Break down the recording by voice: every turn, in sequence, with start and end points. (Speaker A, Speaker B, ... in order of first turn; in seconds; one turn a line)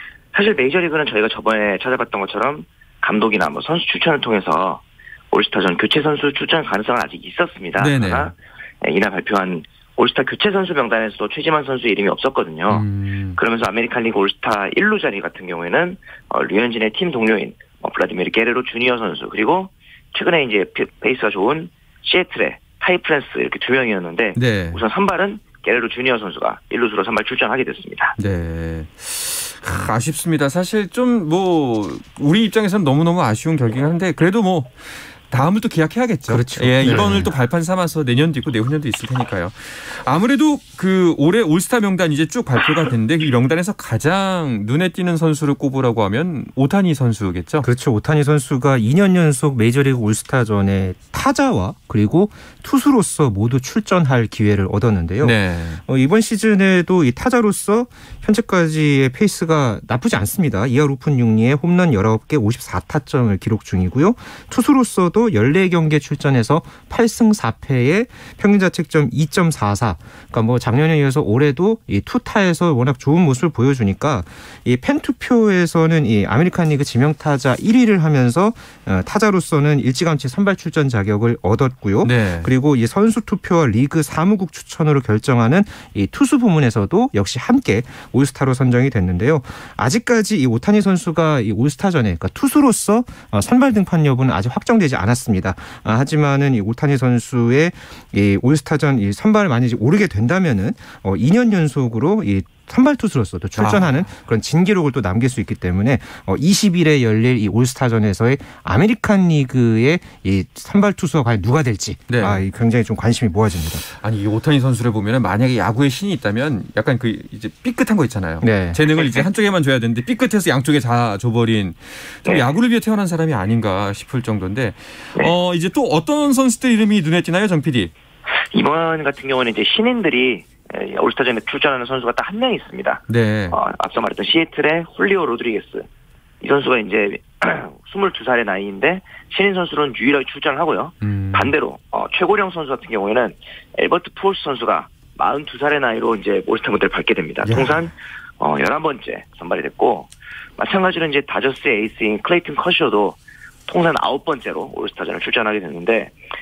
Speaker A: 0.3-12.9
Speaker B: 7.8-8.3
Speaker B: 12.7-13.4
Speaker A: 13.4-28.2
Speaker B: 24.4-24.8
Speaker B: 28.2-47.7
Speaker C: 36.3-37.3
Speaker C: 47.6-113.8
Speaker B: 55.2-55.8
Speaker B: 82.0-82.5
Speaker B: 103.6-104.1
Speaker B: 112.1-112.4
Speaker B: 113.9-127.9
Speaker C: 118.4-118.8
Speaker A: 119.0-119.2
Speaker A: 128.5-135.9
Speaker B: 133.1-133.6
Speaker A: 136.4-156.2
Speaker B: 141.0-141.5
Speaker B: 147.4-147.8